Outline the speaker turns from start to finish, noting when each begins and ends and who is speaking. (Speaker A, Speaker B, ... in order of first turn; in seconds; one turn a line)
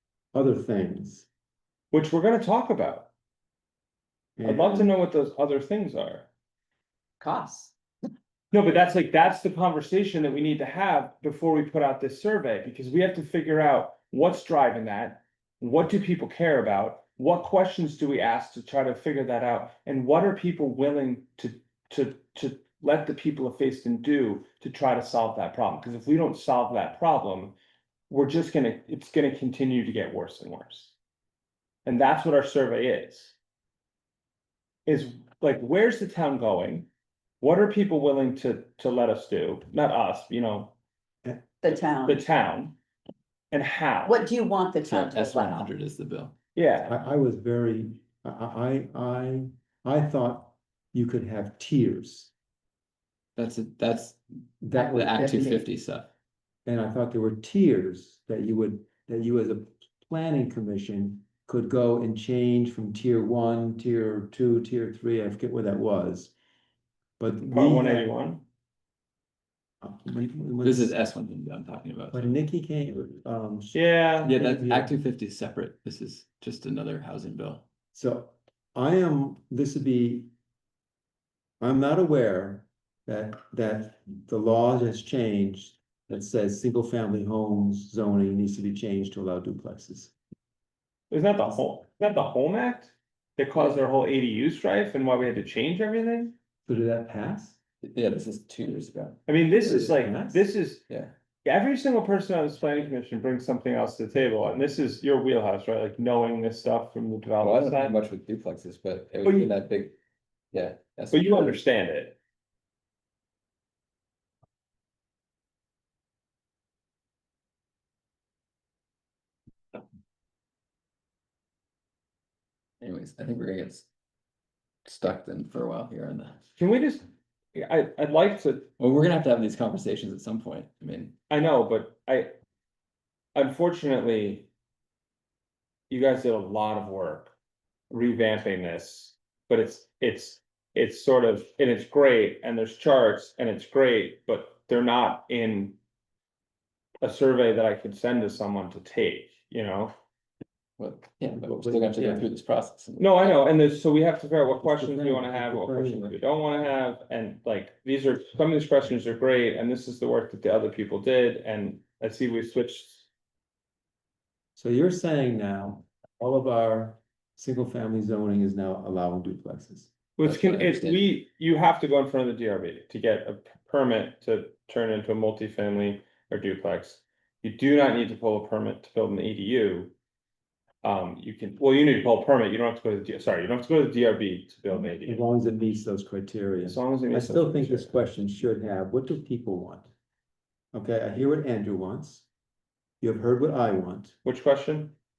Speaker A: 0.3-1.3
Speaker B: 1.9-3.1
Speaker A: 4.4-4.9
Speaker B: 4.5-6.3
Speaker C: 7.2-7.7
Speaker B: 8.5-27.6
Speaker B: 28.1-30.9
Speaker B: 31.9-33.4
Speaker B: 34.9-36.9
Speaker B: 37.4-40.7
Speaker C: 41.6-42.2
Speaker B: 42.0-42.8
Speaker B: 43.5-44.3
Speaker C: 44.1-45.7
Speaker D: 44.8-46.4
Speaker B: 46.5-47.0
Speaker A: 46.9-52.3
Speaker D: 53.4-54.2
Speaker A: 54.6-55.6
Speaker D: 54.7-56.1
Speaker C: 54.8-55.6
Speaker A: 56.6-66.3
Speaker A: 67.2-68.1
Speaker B: 67.4-68.4
Speaker A: 69.8-70.9
Speaker D: 70.6-72.3
Speaker A: 72.1-75.0
Speaker B: 73.7-74.3
Speaker D: 74.2-77.7
Speaker A: 77.9-80.3
Speaker A: 81.6-90.1
Speaker B: 91.1-96.3
Speaker A: 96.7-97.6
Speaker D: 97.8-99.2
Speaker B: 99.3-100.8
Speaker A: 99.6-100.5
Speaker D: 100.9-101.1
Speaker B: 101.5-108.0
Speaker D: 107.4-110.0
Speaker B: 109.2-109.5
Speaker D: 110.5-111.6
Speaker B: 111.1-112.2
Speaker D: 122.8-123.9
Speaker D: 124.8-126.4
Speaker B: 126.6-128.7
Speaker D: 128.8-131.2
Speaker B: 131.3-132.3
Speaker B: 133.3-134.5
Speaker B: 135.9-137.3
Speaker B: 137.9-145.8
Speaker B: 147.0-149.9
Speaker D: 150.8-153.3
Speaker A: 151.3-152.3
Speaker B: 153.0-163.1
Speaker A: 154.6-156.1
Speaker A: 164.6-169.9
Speaker B: 170.2-179.9
Speaker D: 170.2-171.0
Speaker B: 180.8-185.2
Speaker A: 185.1-189.9
Speaker B: 186.7-188.0
Speaker A: 190.7-192.3
Speaker A: 193.0-194.2
Speaker B: 194.2-194.9